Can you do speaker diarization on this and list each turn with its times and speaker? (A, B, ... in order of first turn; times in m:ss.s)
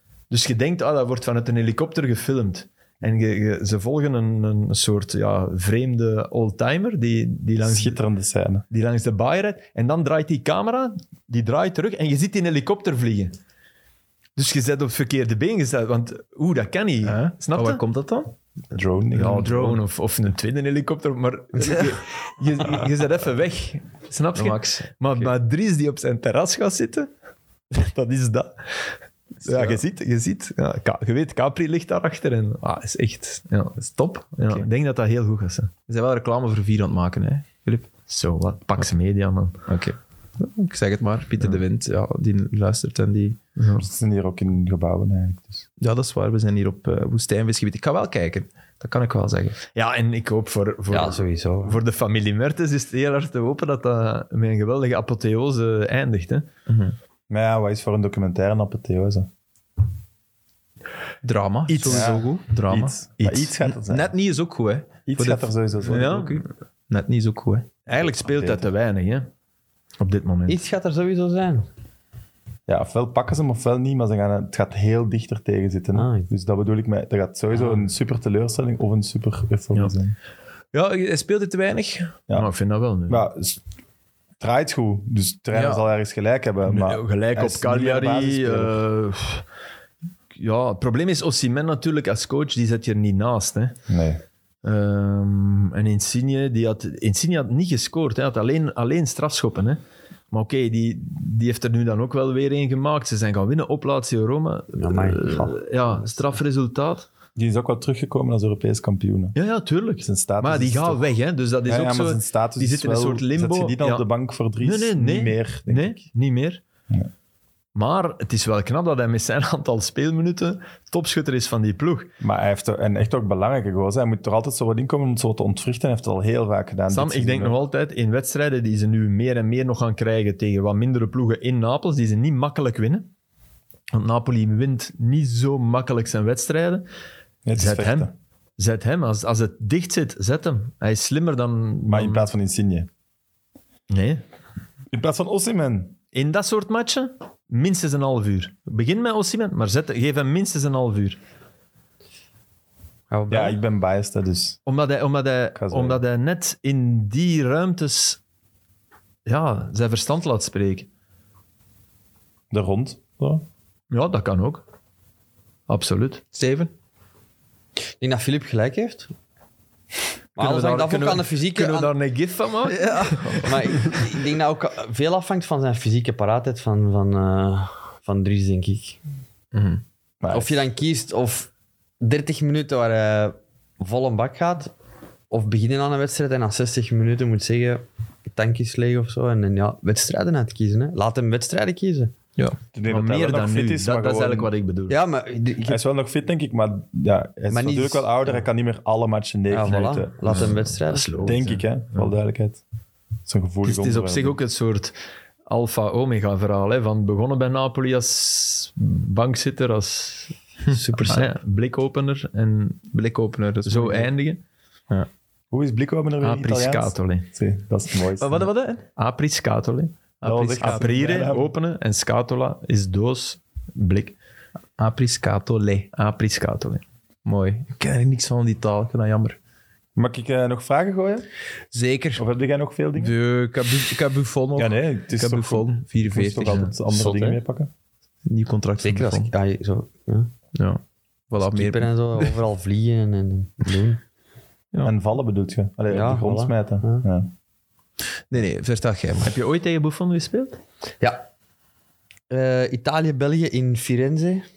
0:00.3-0:08.0 A
0:07.6-0:08.6 B
0:08.7-0:13.4 A
0:14.4-0:17.8 A
0:17.0-0:18.3 C
0:18.7-0:19.7 B
0:19.1-0:27.1 A
0:19.4-0:19.8 C
0:24.4-0:25.3 C
0:27.7-0:35.7 A
0:29.5-0:29.8 C
0:33.8-0:34.6 C
0:35.9-0:37.9 C
0:38.1-0:39.6 A
0:39.7-0:43.4 C
0:43.6-0:43.8 A
0:43.8-0:45.6 B
0:45.8-0:49.6 C
0:49.7-0:56.5 A
0:50.9-0:51.8 D
0:56.7-0:56.9 C
0:57.3-0:59.3 B
1:01.2-1:07.7 C
1:01.7-1:02.2 A
1:01.8-1:04.1 B
1:05.1-1:06.1 B
1:05.8-1:06.4 A
1:07.8-1:09.3 A
1:08.0-1:08.7 B
1:10.0-1:10.6 A
1:10.5-1:11.7 D
1:12.7-1:20.2 B
1:15.9-1:16.3 D
1:20.7-1:22.2 C
1:22.3-1:23.3 A
1:23.1-1:23.6 B
1:24.4-1:28.8 B
1:25.5-1:25.8 C
1:26.6-1:29.4 A
1:30.4-1:33.8 A
1:33.9-1:34.2 B
1:34.6-1:39.8 A
1:40.3-1:47.1 A
1:44.8-1:45.6 D
1:47.4-1:49.4 B
1:49.4-1:54.1 A
1:50.0-1:51.0 B
1:51.6-1:56.0 B
1:54.6-1:56.6 A
1:57.7-2:02.1 A
2:02.2-2:07.6 B
2:06.9-2:13.1 A
2:13.9-2:16.8 A
2:17.4-2:18.1 B
2:17.6-2:22.3 A
2:21.9-2:22.9 B
2:23.9-2:24.2 A
2:24.9-2:26.0 B
2:26.1-2:31.2 A
2:33.1-2:33.6 D
2:33.3-2:34.6 B
2:34.6-2:38.2 A
2:35.6-2:36.0 B
2:39.3-2:40.9 A
2:42.5-2:43.4 B
2:43.9-2:44.6 A
2:45.7-2:46.2 A
2:46.3-2:46.7 C
2:48.0-2:49.1 D
2:50.4-2:51.9 D
2:50.4-2:54.0 A
2:52.7-2:53.8 C
2:53.4-2:59.0 D
2:59.5-2:59.8 C
3:00.2-3:00.6 B
3:00.3-3:01.5 D
3:02.0-3:04.7 D
3:05.3-3:12.1 D
3:12.7-3:14.5 B
3:12.9-3:15.0 A
3:14.9-3:15.8 D
3:15.6-3:20.5 B
3:17.5-3:18.4 D
3:19.5-3:21.5 D
3:20.3-3:22.1 A
3:21.2-3:22.6 B
3:23.3-3:24.4 B
3:23.6-3:24.9 A
3:25.5-3:30.4 A
3:30.7-3:31.3 D
3:30.9-3:32.9 A
3:32.9-3:34.1 C
3:33.6-3:34.4 A
3:35.5-3:38.5 B
3:36.2-3:37.3 A
3:38.2-3:38.8 C
3:39.0-3:44.2 A
3:40.2-3:41.5 B
3:44.8-3:49.4 C
3:50.0-3:51.3 B
3:51.7-3:52.2 C
3:52.2-3:53.2 B
3:53.0-3:56.7 C
3:54.6-3:57.7 B
3:56.9-3:57.4 D
3:58.3-3:59.3 C
3:58.8-4:00.3 D
4:00.6-4:02.4 C
4:01.4-4:04.0 D
4:04.8-4:07.3 B
4:05.9-4:07.0 D
4:08.3-4:09.4 C
4:09.2-4:10.6 A
4:12.3-4:14.4 D